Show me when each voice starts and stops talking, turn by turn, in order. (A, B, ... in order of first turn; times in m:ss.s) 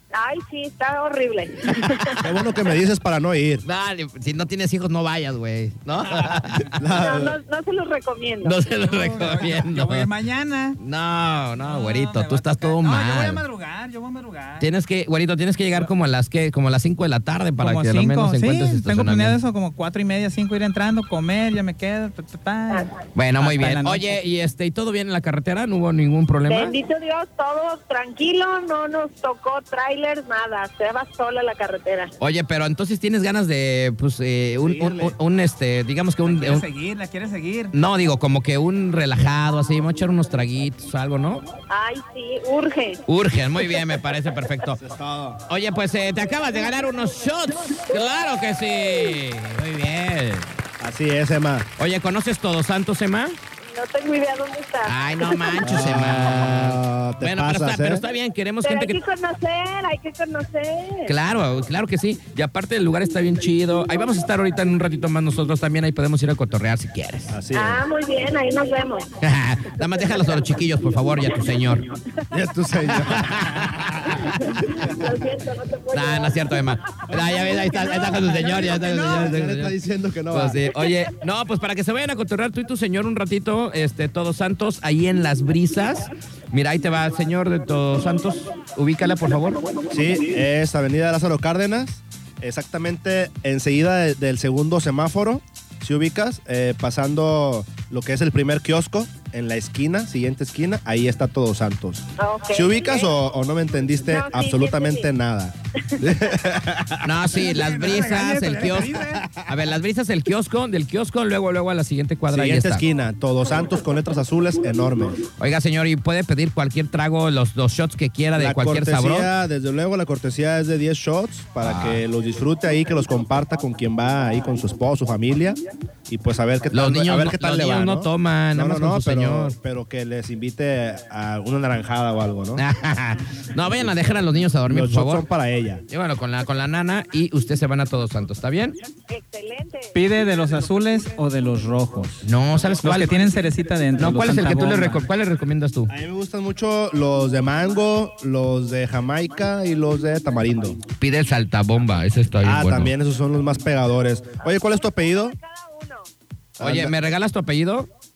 0:00.1-0:02.2 A
0:01.8-0:02.2 B
0:02.2-0:03.6 C
0:03.6-0:06.8 B
0:06.8-0:07.4 C
0:06.9-0:08.6 A
0:08.4-0:10.1 B
0:08.8-0:10.8 D
0:10.8-0:13.4 B
0:11.6-0:14.7 D
0:14.6-0:19.4 B
0:17.6-0:24.1 D
0:22.7-0:22.9 A
0:23.1-0:26.8 B
0:26.5-0:32.1 A
0:32.2-0:36.6 B
0:34.6-0:35.2 C
0:36.2-0:37.7 D
0:37.7-0:41.4 B
0:41.7-0:43.0 A
0:43.1-0:44.8 B
0:44.7-0:45.4 C
0:45.5-0:50.5 B
0:50.8-0:51.7 C
0:51.8-0:53.4 B
0:53.6-0:55.8 A
0:54.8-0:59.0 B
0:55.6-0:58.0 C
0:58.6-1:01.1 A
1:01.0-1:07.4 B
1:07.3-1:07.8 C
1:07.5-1:09.1 A
1:09.2-1:11.9 B
1:12.3-1:13.7 C
1:13.1-1:14.3 B
1:14.1-1:17.7 A
1:14.6-1:15.0 C
1:15.9-1:19.7 B
1:17.5-1:20.7 C
1:20.3-1:29.6 B
1:29.9-1:47.2 C
1:42.2-1:43.1 A
1:44.0-1:45.1 A
1:47.0-1:52.8 B
1:47.3-1:49.3 D
1:52.3-1:55.2 C
1:55.4-1:59.3 B
1:58.4-2:12.6 C
2:01.6-2:02.0 B
2:06.7-2:09.6 B
2:12.6-2:15.2 B
2:14.7-2:15.8 C
2:15.9-2:18.8 B
2:19.1-2:20.0 A
2:19.9-2:22.2 D
2:22.2-2:23.1 B
2:22.8-2:25.0 D
2:24.0-2:25.9 B
2:25.9-2:30.8 C
2:31.0-2:32.9 B
2:32.4-2:35.4 C
2:34.4-2:36.1 A
2:36.6-2:36.9 C
2:36.6-2:37.9 B